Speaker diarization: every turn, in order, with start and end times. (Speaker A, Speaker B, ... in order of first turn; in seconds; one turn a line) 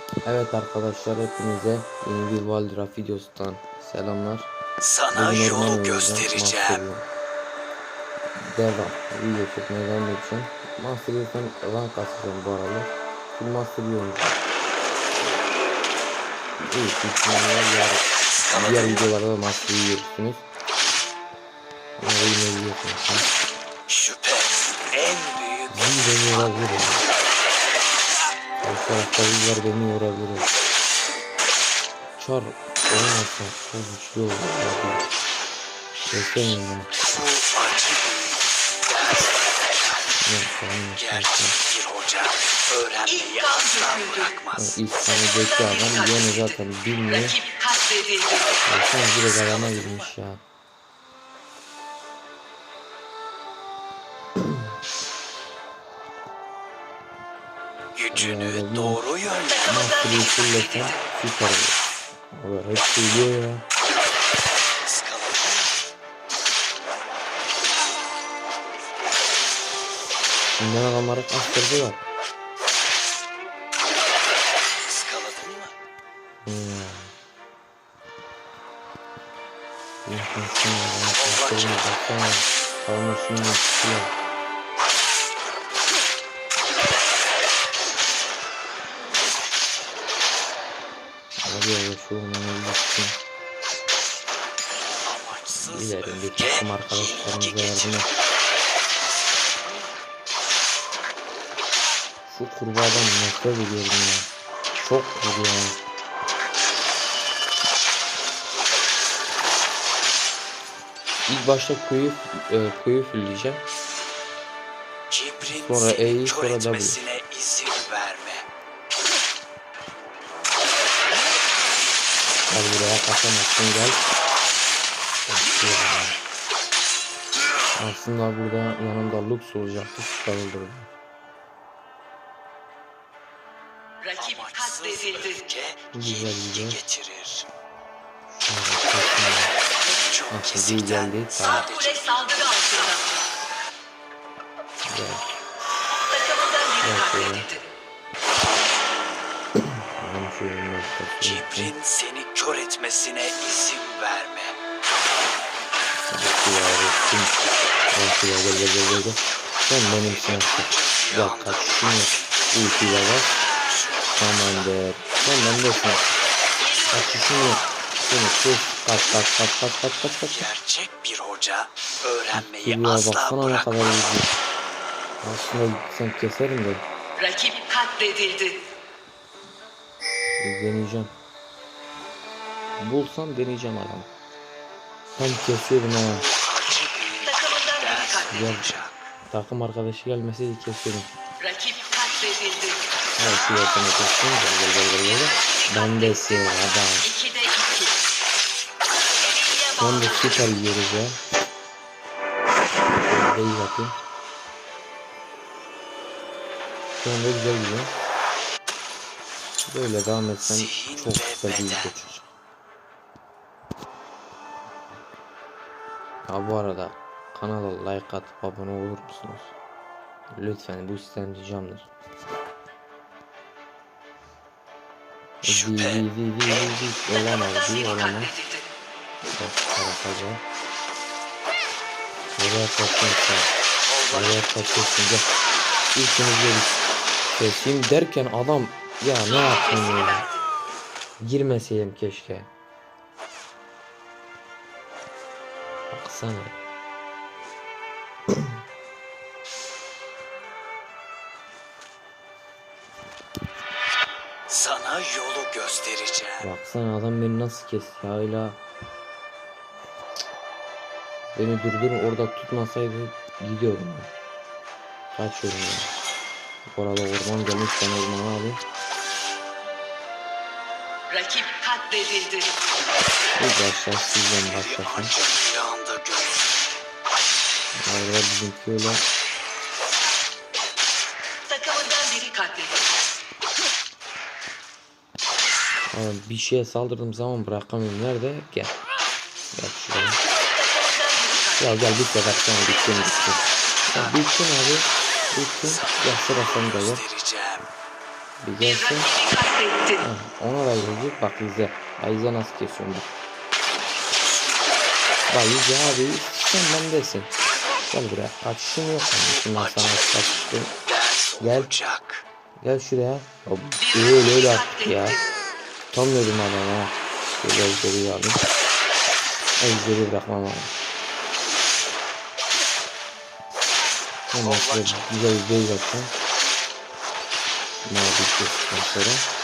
Speaker A: 0.2-4.5
Speaker B: 4.8-6.8
Speaker A: 5.1-7.0
Speaker A: 8.5-14.4
Speaker A: 16.6-20.4
Speaker B: 18.3-19.1
Speaker A: 22.0-23.3
Speaker B: 23.9-25.7
Speaker A: 25.7-27.1
Speaker A: 28.6-30.5
Speaker A: 32.2-35.0
Speaker A: 36.0-36.9
Speaker B: 37.0-40.0
Speaker A: 40.2-41.6
Speaker B: 41.0-44.8
Speaker A: 44.5-47.4
Speaker C: 47.7-48.3
Speaker A: 48.6-50.4
Speaker B: 49.2-50.1
Speaker B: 57.9-59.7
Speaker A: 58.1-59.0
Speaker A: 59.6-63.6
Speaker B: 64.8-65.8
Speaker A: 70.6-72.0
Speaker B: 74.9-75.7
Speaker A: 76.4-77.1
Speaker A: 80.0-84.1
Speaker B: 81.2-81.8
Speaker A: 91.4-93.2
Speaker B: 95.0-98.1
Speaker A: 95.5-98.1
Speaker A: 102.3-105.8
Speaker A: 111.3-113.6
Speaker B: 115.1-118.4
Speaker A: 115.4-117.0
Speaker A: 122.5-124.0
Speaker A: 125.3-126.2
Speaker A: 127.8-130.9
Speaker B: 134.1-137.5
Speaker A: 135.9-136.8
Speaker A: 138.3-139.5
Speaker B: 139.8-142.7
Speaker A: 140.3-141.6
Speaker C: 142.2-143.0
Speaker A: 144.9-145.2
Speaker C: 146.1-146.8
Speaker A: 146.8-147.5
Speaker A: 150.0-151.7
Speaker B: 151.2-154.5
Speaker A: 156.1-157.3
Speaker A: 157.9-163.3
Speaker B: 160.1-162.5
Speaker B: 163.6-164.2
Speaker A: 164.2-166.2
Speaker A: 166.9-170.5
Speaker B: 170.3-173.8
Speaker A: 172.3-174.3
Speaker A: 175.2-176.8
Speaker C: 177.2-178.5
Speaker A: 180.4-181.1
Speaker A: 182.8-184.1
Speaker A: 185.1-186.2
Speaker B: 186.1-189.1
Speaker C: 187.4-187.8
Speaker A: 188.3-188.7
Speaker A: 189.3-191.1
Speaker C: 191.4-192.8
Speaker A: 193.2-197.1
Speaker C: 197.1-197.9
Speaker C: 199.4-199.7
Speaker A: 199.8-201.2
Speaker A: 203.1-204.0
Speaker A: 207.0-207.9
Speaker A: 209.7-212.3
Speaker B: 210.4-211.9
Speaker A: 216.2-219.5
Speaker A: 220.3-221.9
Speaker A: 225.4-228.3
Speaker B: 225.4-226.0
Speaker A: 229.3-230.4
Speaker A: 232.4-233.5
Speaker B: 233.9-234.3
Speaker A: 234.1-235.3
Speaker A: 235.9-236.8
Speaker A: 237.3-240.3
Speaker A: 241.2-242.5
Speaker A: 245.9-246.6
Speaker B: 254.5-256.5
Speaker A: 256.4-258.6
Speaker A: 261.3-264.1
Speaker A: 265.1-265.9
Speaker A: 266.7-268.6
Speaker C: 271.1-272.5
Speaker A: 273.4-275.1
Speaker B: 274.4-276.6
Speaker A: 277.8-279.0
Speaker C: 281.5-282.9
Speaker A: 285.9-288.7
Speaker A: 289.6-290.2
Speaker C: 290.9-291.5
Speaker A: 291.6-297.0
Speaker B: 293.9-294.2
Speaker B: 295.6-297.6
Speaker A: 298.4-299.1
Speaker C: 299.3-299.9
Speaker A: 300.0-303.1
Speaker B: 304.2-304.8
Speaker A: 305.3-307.3
Speaker A: 307.9-310.7
Speaker B: 309.2-312.2
Speaker A: 311.4-311.7
Speaker A: 312.6-315.2
Speaker A: 315.9-318.4
Speaker A: 319.6-320.7
Speaker A: 324.3-326.1
Speaker B: 324.6-324.9
Speaker A: 327.9-329.3